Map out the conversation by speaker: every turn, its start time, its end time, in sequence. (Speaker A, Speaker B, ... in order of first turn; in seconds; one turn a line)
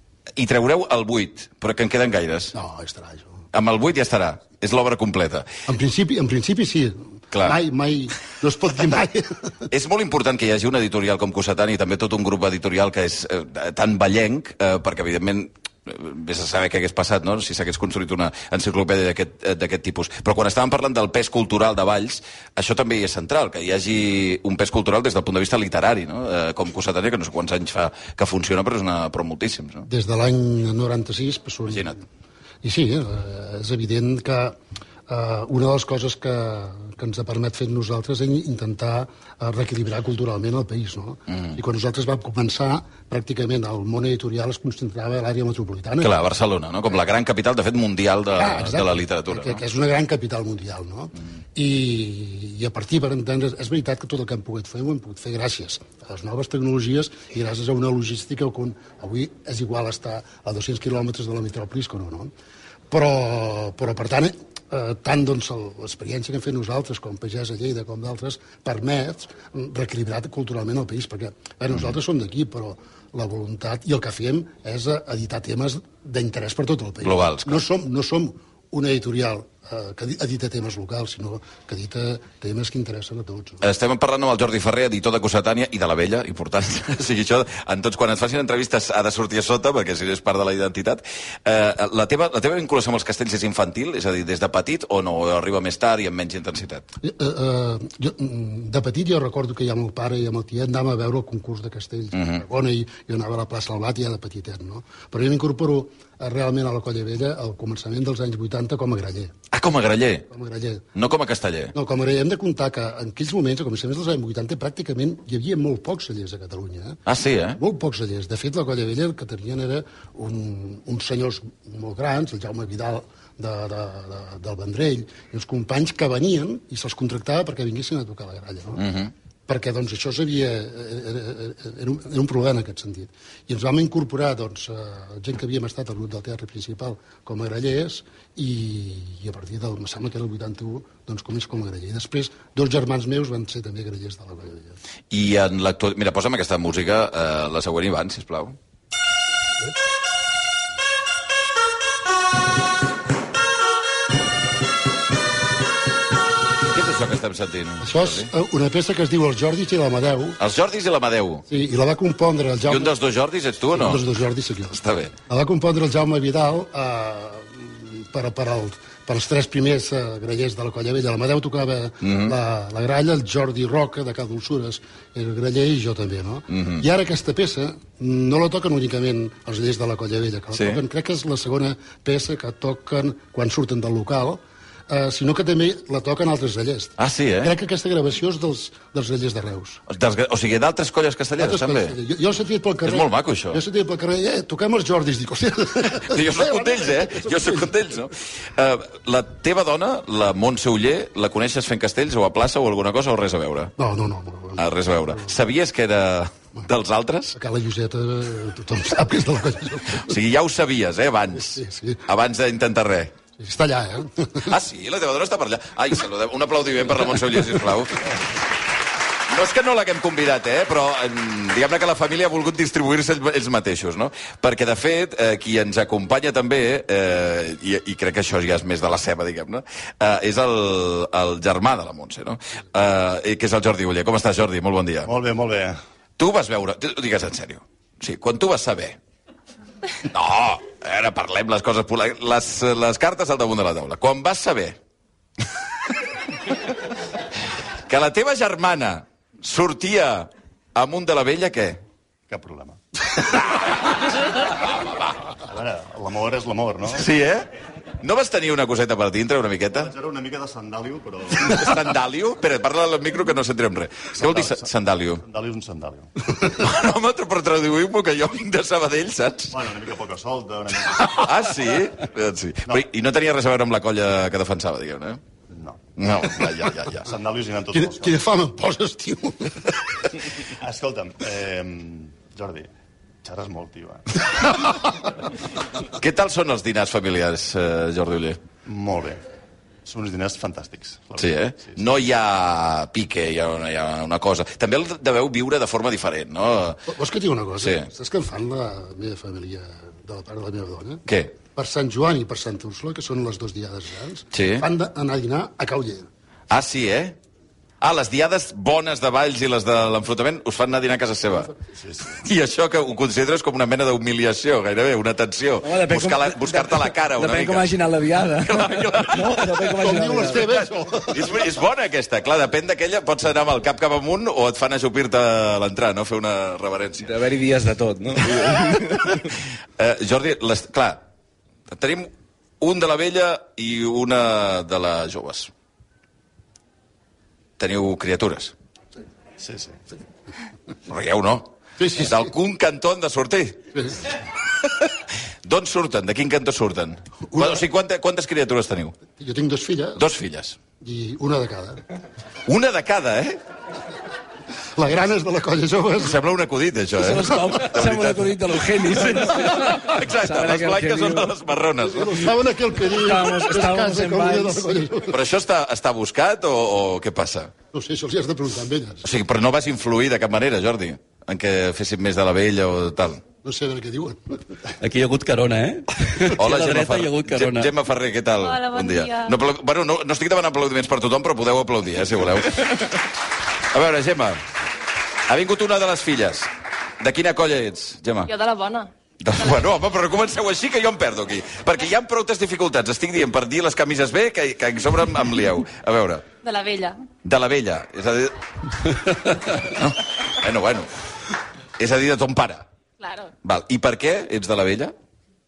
Speaker A: 0.4-2.5
Speaker B: 2.5-3.4
Speaker A: 3.5-5.5
Speaker B: 5.7-9.6
Speaker A: 7.3-7.6
Speaker A: 9.7-29.9
Speaker B: 29.9-32.0
Speaker A: 31.7-31.9
Speaker B: 32.6-34.6
Speaker B: 35.1-46.2
Speaker A: 41.3-41.6
Speaker A: 46.0-49.6
Speaker B: 48.4-62.3
Speaker B: 62.9-83.6
Speaker A: 77.0-77.6
Speaker A: 83.6-96.8
Speaker B: 97.0-109.3
Speaker A: 102.1-102.4
Speaker A: 109.5-110.3
Speaker B: 110.3-110.9
Speaker A: 111.0-111.7
Speaker B: 111.7-117.0
Speaker A: 117.1-117.6
Speaker B: 117.5-128.9
Speaker A: 128.8-129.1
Speaker B: 129.5-144.8
Speaker A: 145.1-148.6
Speaker A: 156.7-158.3
Speaker B: 157.8-160.4
Speaker A: 160.4-161.4
Speaker B: 161.5-162.9
Speaker A: 162.7-164.0
Speaker B: 163.7-189.8
Speaker A: 164.7-165.1
Speaker A: 172.0-172.3
Speaker A: 176.5-176.8
Speaker A: 180.5-180.8
Speaker A: 187.0-187.6
Speaker A: 189.9-191.9
Speaker B: 191.4-198.0
Speaker A: 192.8-193.6
Speaker A: 196.0-203.7
Speaker B: 203.8-205.3
Speaker A: 204.6-207.3
Speaker B: 207.3-210.1
Speaker A: 210.0-213.1
Speaker B: 211.4-212.0
Speaker B: 213.4-214.5
Speaker A: 214.5-218.1
Speaker A: 219.3-235.1
Speaker C: 235.1-235.8
Speaker A: 236.2-239.0
Speaker A: 240.1-244.8
Speaker A: 247.9-251.8
Speaker C: 252.3-252.8
Speaker C: 255.5-257.1
Speaker A: 256.9-257.5
Speaker A: 258.0-259.9
Speaker C: 259.8-261.6
Speaker A: 261.4-265.2
Speaker C: 264.2-264.7
Speaker C: 265.2-266.1
Speaker A: 266.5-269.6
Speaker C: 269.5-271.3
Speaker A: 271.0-275.2
Speaker C: 275.5-275.9
Speaker A: 276.0-277.1
Speaker C: 277.1-278.2
Speaker B: 277.7-279.9
Speaker C: 280.6-282.7
Speaker C: 283.2-284.3
Speaker A: 286.0-288.4
Speaker C: 288.7-289.2
Speaker C: 289.9-291.9
Speaker A: 291.2-296.8
Speaker B: 296.9-306.1
Speaker A: 297.6-297.9
Speaker A: 301.1-301.4
Speaker A: 304.3-304.7
Speaker A: 306.5-307.2
Speaker A: 307.8-311.5
Speaker C: 311.8-312.1
Speaker A: 312.2-317.7
Speaker D: 315.6-320.6
Speaker A: 318.4-319.7
Speaker B: 319.8-321.4
Speaker A: 321.1-327.2
Speaker D: 327.0-329.1
Speaker A: 328.3-329.0
Speaker A: 329.8-331.0
Speaker A: 331.7-335.5
Speaker A: 337.6-338.5
Speaker C: 339.4-339.8
Speaker A: 340.9-343.6
Speaker B: 341.8-342.3
Speaker A: 345.4-349.0
Speaker B: 347.3-347.6
Speaker B: 349.2-350.0
Speaker A: 350.0-350.6
Speaker B: 350.8-351.8
Speaker A: 352.5-353.4
Speaker B: 354.8-356.2
Speaker A: 356.0-358.3
Speaker D: 357.0-361.3
Speaker A: 359.0-362.3
Speaker B: 361.9-365.2
Speaker D: 362.8-364.8
Speaker A: 365.1-367.5
Speaker B: 367.7-369.1
Speaker A: 369.0-373.2
Speaker B: 373.4-374.4
Speaker E: 374.8-377.7
Speaker A: 376.3-383.0
Speaker F: 378.4-379.4
Speaker A: 383.7-384.4
Speaker A: 385.3-386.5
Speaker A: 387.0-388.3
Speaker F: 388.3-388.9
Speaker A: 389.2-396.3
Speaker F: 396.4-397.1
Speaker A: 397.2-398.4
Speaker A: 398.9-400.9
Speaker A: 401.8-402.7
Speaker F: 403.0-403.3
Speaker A: 403.4-404.9